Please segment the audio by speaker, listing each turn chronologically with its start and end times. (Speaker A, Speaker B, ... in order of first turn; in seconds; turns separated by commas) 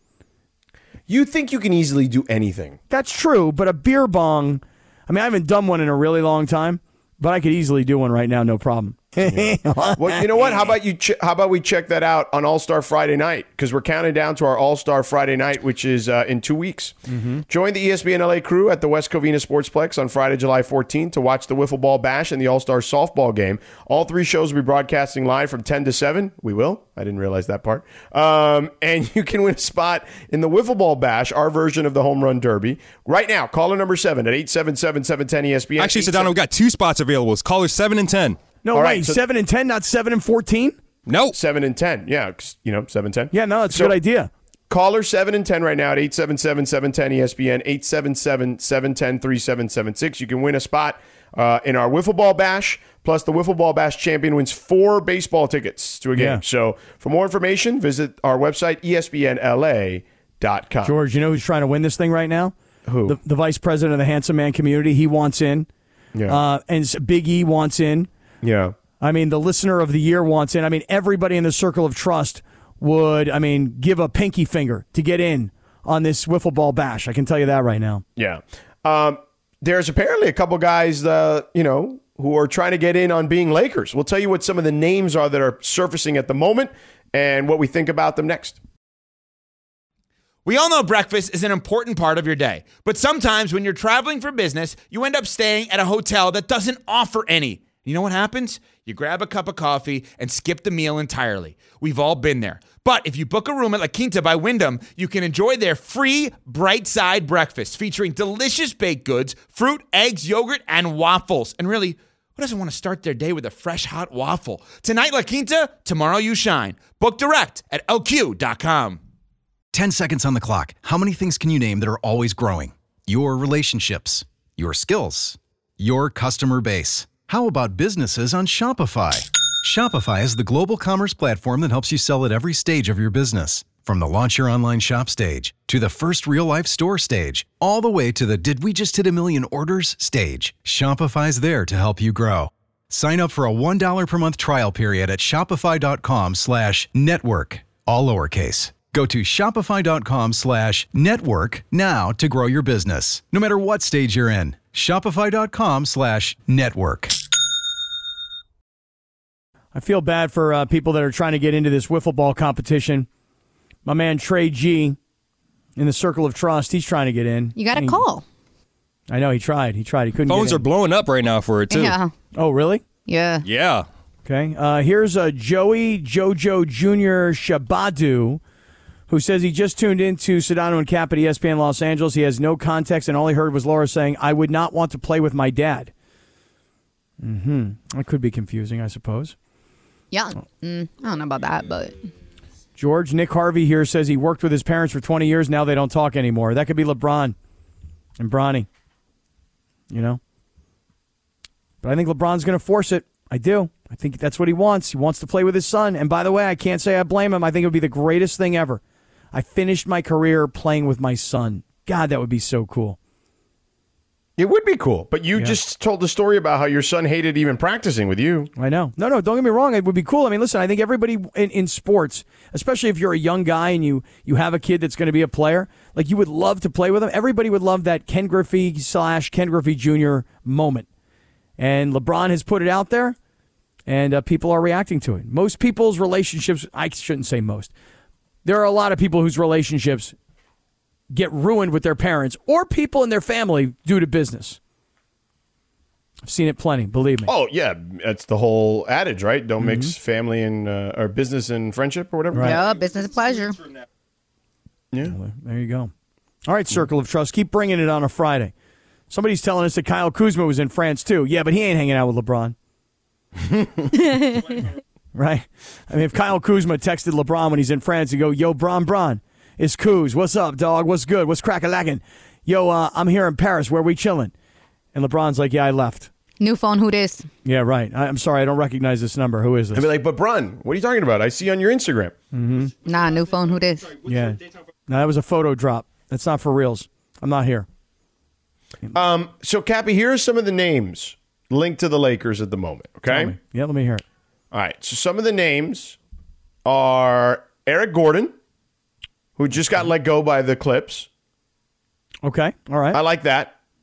Speaker A: 1.1-2.8, Speaker B: 2.9-10.3, Speaker A: 9.2-17.0, Speaker B: 17.1-17.4, Speaker A: 17.5-36.3, Speaker C: 35.8-38.4, Speaker B: 38.6-40.8, Speaker A: 38.7-39.2, Speaker C: 41.1-41.4, Speaker A: 41.3-44.0, Speaker B: 43.3-44.3, Speaker A: 44.7-60.9, Speaker B: 56.1-56.4, Speaker B: 60.8-62.5, Speaker A: 62.9-63.2, Speaker B: 63.0-65.7, Speaker A: 66.1-66.4, Speaker B: 66.3-68.1, Speaker A: 68.4-68.8, Speaker B: 69.0-78.0, Speaker A: 78.2-88.6, Speaker D: 90.5-119.0, Speaker E: 119.7-157.1, Speaker B: 159.7-163.1, Speaker B: 163.8-165.0, Speaker B: 165.8-168.0, Speaker F: 167.6-168.2, Speaker B: 169.1-170.6, Speaker C: 170.3-172.0, Speaker F: 171.7-172.1, Speaker B: 172.3-172.8, Speaker F: 173.1-173.4, Speaker C: 173.4-173.9, Speaker B: 174.2-178.4, Speaker B: 179.1-185.9, Speaker B: 187.2-189.3, Speaker F: 190.1-192.0, Speaker B: 192.8-197.4, Speaker B: 198.2-198.7, Speaker B: 199.9-200.2, Speaker B: 201.8-208.8, Speaker B: 209.3-213.0, Speaker A: 214.4-218.5, Speaker B: 218.6-230.9, Speaker B: 231.6-233.2, Speaker B: 233.9-237.7, Speaker B: 238.4-240.1, Speaker B: 241.1-244.6, Speaker B: 246.2-247.3, Speaker A: 247.2-252.6, Speaker B: 249.6-249.9, Speaker B: 252.3-252.6, Speaker F: 252.4-253.6, Speaker B: 255.1-255.9, Speaker B: 256.5-258.5, Speaker B: 259.1-262.5, Speaker F: 264.1-264.6, Speaker B: 265.1-274.3, Speaker B: 274.9-276.1, Speaker F: 276.4-277.3, Speaker B: 277.4-279.9, Speaker A: 279.8-282.2, Speaker B: 282.3-282.7, Speaker F: 282.8-284.0, Speaker B: 284.0-287.7, Speaker A: 288.9-293.4, Speaker B: 293.1-294.0, Speaker A: 294.5-296.0, Speaker A: 296.6-298.3, Speaker A: 299.4-301.1, Speaker B: 302.2-303.0, Speaker A: 302.9-303.5